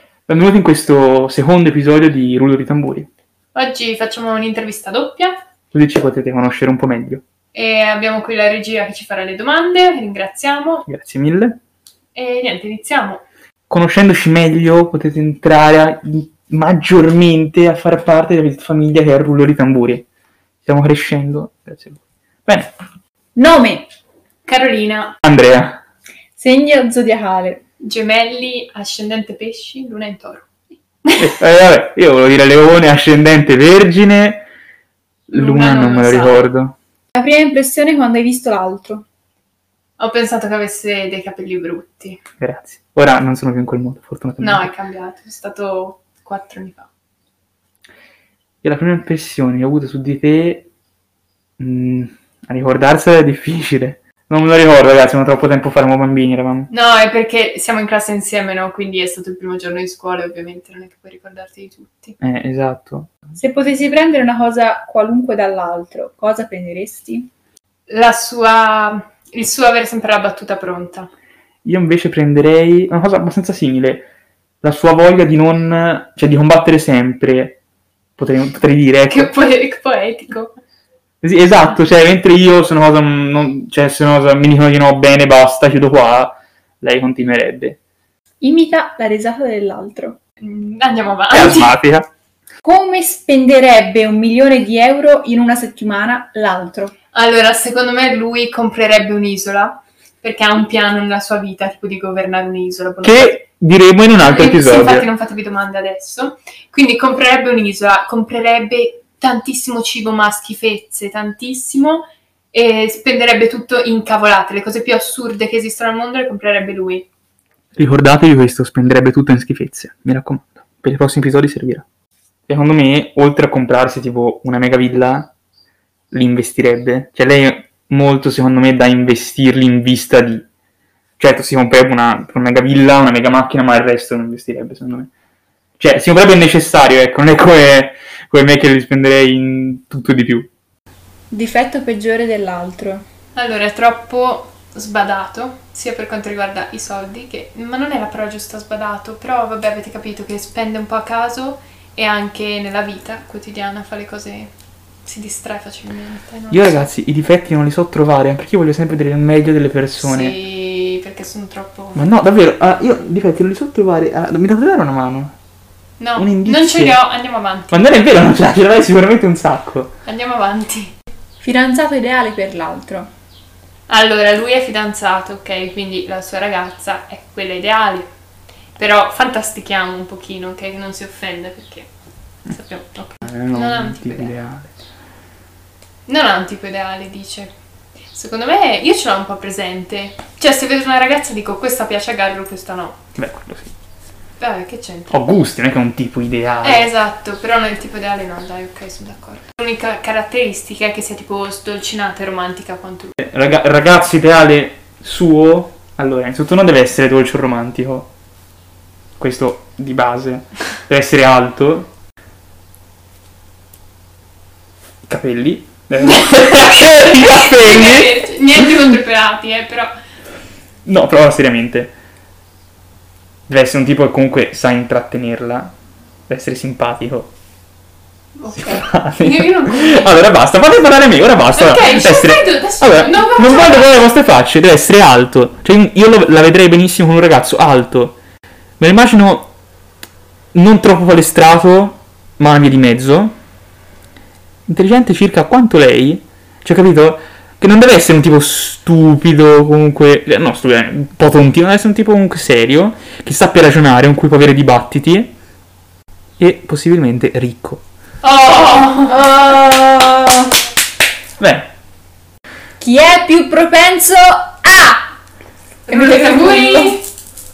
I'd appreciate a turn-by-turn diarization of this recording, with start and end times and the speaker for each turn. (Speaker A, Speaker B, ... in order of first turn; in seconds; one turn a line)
Speaker A: 0.3-3.1
Speaker B: 3.5-5.4
Speaker A: 5.7-7.2
Speaker B: 7.5-10.9
Speaker A: 10.9-11.6
Speaker B: 12.1-13.2
Speaker A: 13.7-20.1
Speaker A: 20.6-22.7
Speaker C: 23.4-23.9
Speaker B: 24.4-25.2
Speaker A: 25.2-25.8
Speaker C: 26.3-27.6
Speaker B: 27.8-30.5
Speaker B: 31.1-31.3
Speaker A: 31.2-34.5
Speaker A: 35.3-36.7
Speaker B: 35.3-36.5
Speaker C: 37.1-39.0
Speaker B: 40.0-42.2
Speaker A: 42.4-44.7
Speaker B: 44.4-46.9
Speaker A: 48.6-50.7
Speaker A: 51.6-56.7
Speaker B: 56.7-62.1
Speaker A: 62.2-63.1
Speaker C: 63.4-67.3
Speaker B: 67.9-71.1
Speaker A: 71.7-74.1
Speaker A: 74.6-77.6
Speaker A: 78.2-79.3
Speaker B: 79.1-80.5
Speaker A: 81.2-87.8
Speaker C: 88.4-90.2
Speaker B: 90.4-91.8
Speaker A: 91.3-92.1
Speaker C: 92.6-96.9
Speaker B: 97.1-103.4
Speaker A: 103.0-105.1
Speaker B: 104.2-117.1
Speaker A: 117.8-121.8
Speaker A: 122.5-125.3
Speaker A: 126.1-130.4
Speaker A: 131.2-135.1
Speaker A: 135.8-140.5
Speaker C: 141.3-143.0
Speaker B: 143.3-154.5
Speaker B: 155.0-156.8
Speaker A: 156.5-160.3
Speaker B: 160.0-162.0
Speaker A: 161.9-165.3
Speaker B: 166.0-167.8
Speaker A: 166.2-167.0
Speaker A: 167.7-169.9
Speaker B: 170.1-170.9
Speaker C: 171.4-173.1
Speaker B: 173.9-178.1
Speaker B: 178.8-181.9
Speaker B: 182.4-184.3
Speaker A: 183.2-184.7
Speaker B: 186.1-187.5
Speaker B: 188.1-193.0
Speaker A: 193.2-193.7
Speaker B: 194.4-195.2
Speaker A: 195.1-196.9
Speaker B: 196.6-203.1
Speaker A: 203.2-208.1
Speaker A: 209.2-211.9
Speaker A: 215.1-218.2
Speaker B: 216.2-219.9
Speaker A: 220.8-221.9
Speaker A: 223.5-225.8
Speaker A: 226.3-227.3
Speaker B: 228.3-230.2
Speaker A: 228.6-238.2
Speaker B: 231.4-233.9
Speaker A: 238.8-239.5
Speaker A: 240.5-243.4
Speaker A: 244.7-255.3
Speaker A: 256.4-257.8
Speaker B: 258.2-259.2
Speaker C: 259.1-260.5
Speaker A: 261.4-261.7
Speaker C: 262.8-265.1
Speaker B: 265.9-267.0
Speaker C: 265.9-267.0